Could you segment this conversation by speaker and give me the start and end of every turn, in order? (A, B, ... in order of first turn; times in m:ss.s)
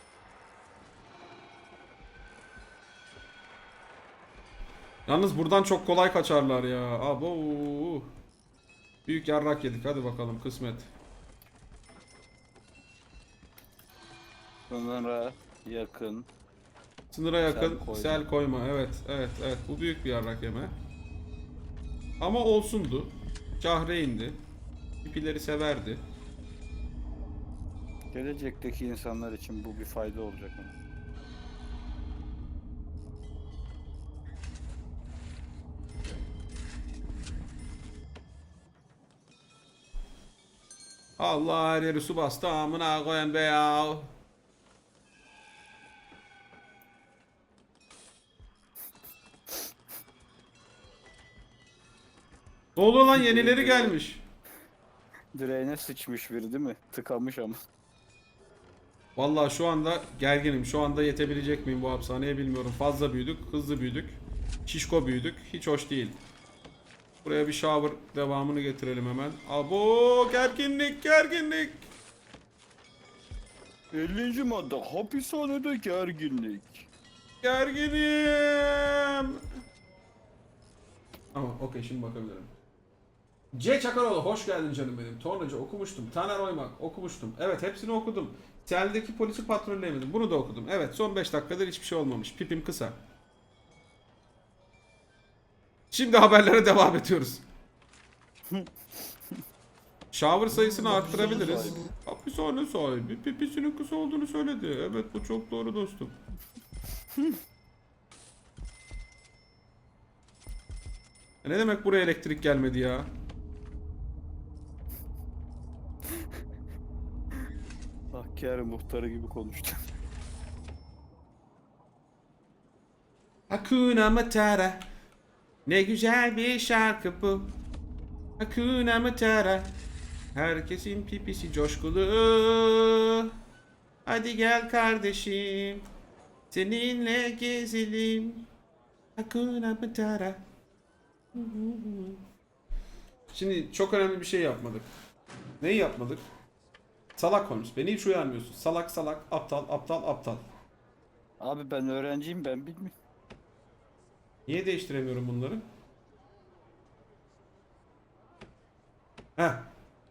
0:05.1-0:08.1 A
0:09.1-0:10.9 A
0:14.7-0:16.3 B
0:17.1-0:20.8 A
0:17.5-0:18.3 B
0:22.2-0:24.4 A
0:25.0-0:26.0 A
0:28.1-0:30.8 B
0:41.2-0:44.1 A
0:52.8-0:54.2 A
0:53.1-0:54.0 B
0:55.3-0:57.6 B
0:59.2-1:06.2 A
1:07.2-1:11.8 A
1:13.9-1:16.9 B
1:17.4-1:19.4 A
1:21.3-1:22.5 A
1:23.5-1:33.0 A
1:35.9-1:37.4 A
1:38.5-1:39.3 B
1:40.1-1:46.2 A
1:41.0-1:41.9 B
1:51.4-1:53.1 A
1:58.1-1:59.9 B
2:03.5-2:04.8 A
2:05.7-2:07.5 A
2:08.4-2:09.7 A
2:10.3-2:13.3 A
2:14.0-2:15.9 A
2:16.5-2:18.5 A
2:19.2-2:20.4 A
2:21.3-2:22.2 A
2:23.3-2:24.9 A
2:25.6-2:26.2 A
2:27.2-2:30.4 A
2:31.4-2:32.9 B
2:34.5-2:35.6 A
2:39.4-2:39.7 A